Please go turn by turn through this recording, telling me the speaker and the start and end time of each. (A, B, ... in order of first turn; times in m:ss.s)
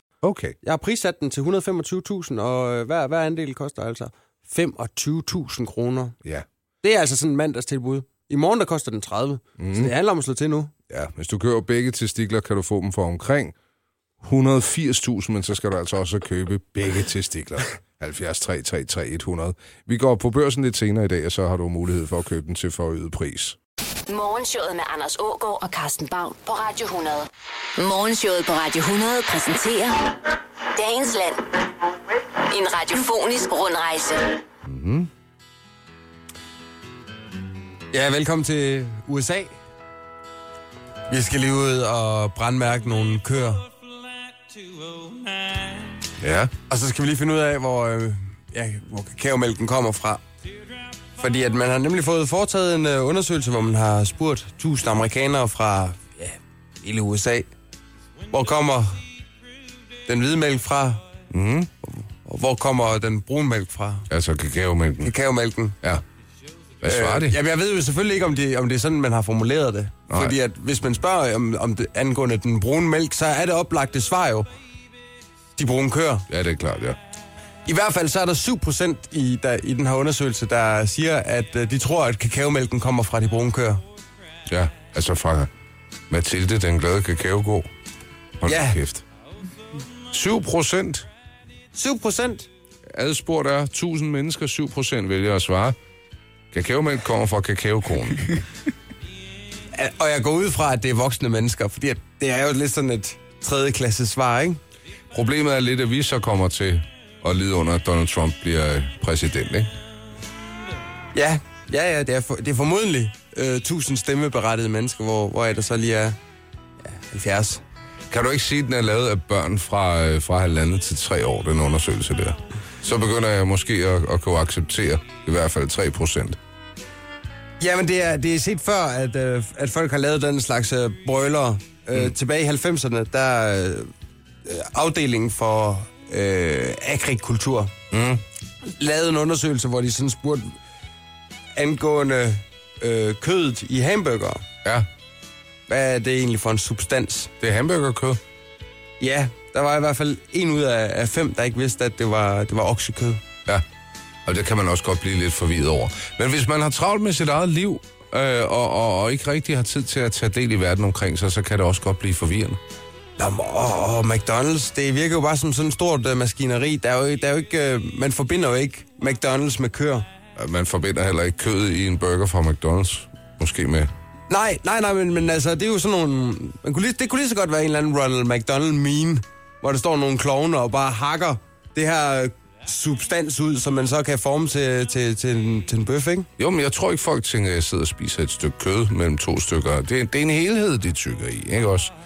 0:00.2-0:00.6 A
0:00.6-0:06.2 B
0:06.8-0:10.7 B
0:09.6-0:09.9 A
0:10.9-0:13.5 A
0:14.2-0:23.6 A
0:24.1-0:31.6 C
0:32.4-0:34.4 C
0:34.6-0:35.1 A
0:37.9-0:39.6 B
0:41.1-0:43.7 B
0:44.9-0:45.7 B
0:46.2-0:46.5 A
0:46.7-0:50.2 B
0:51.2-0:57.5 B
0:58.3-0:59.0 B
1:00.1-1:01.0 B
1:01.3-1:01.7 A
1:02.2-1:04.1 B
1:04.1-1:05.1 A
1:05.0-1:05.8 B
1:06.8-1:07.4 A
1:06.8-1:14.5 B
1:10.1-1:10.4 A
1:15.6-1:16.3 B
1:16.3-1:17.0 A
1:17.6-1:23.8 B
1:24.5-1:25.5 A
1:26.1-1:27.7 A
1:28.4-1:29.0 A
1:28.5-1:28.8 B
1:30.1-1:31.1 A
1:31.7-1:32.5 B
1:32.9-1:35.8 A
1:36.5-1:38.4 A
1:39.7-1:44.6 B
1:45.1-1:49.7 A
1:51.1-1:56.2 B
1:56.8-1:57.6 B
1:58.1-2:06.4 A
2:07.6-2:13.9 B
2:14.4-2:17.7 B
2:17.9-2:18.2 A
2:18.6-2:20.6 B
2:21.6-2:24.5 B
2:25.7-2:27.3 B
2:27.4-2:28.2 A
2:29.0-2:33.2 B
2:34.2-2:42.6 A
2:43.2-2:50.0 B
2:50.4-2:53.9 A
2:54.3-3:06.3 B
3:06.4-3:11.9 A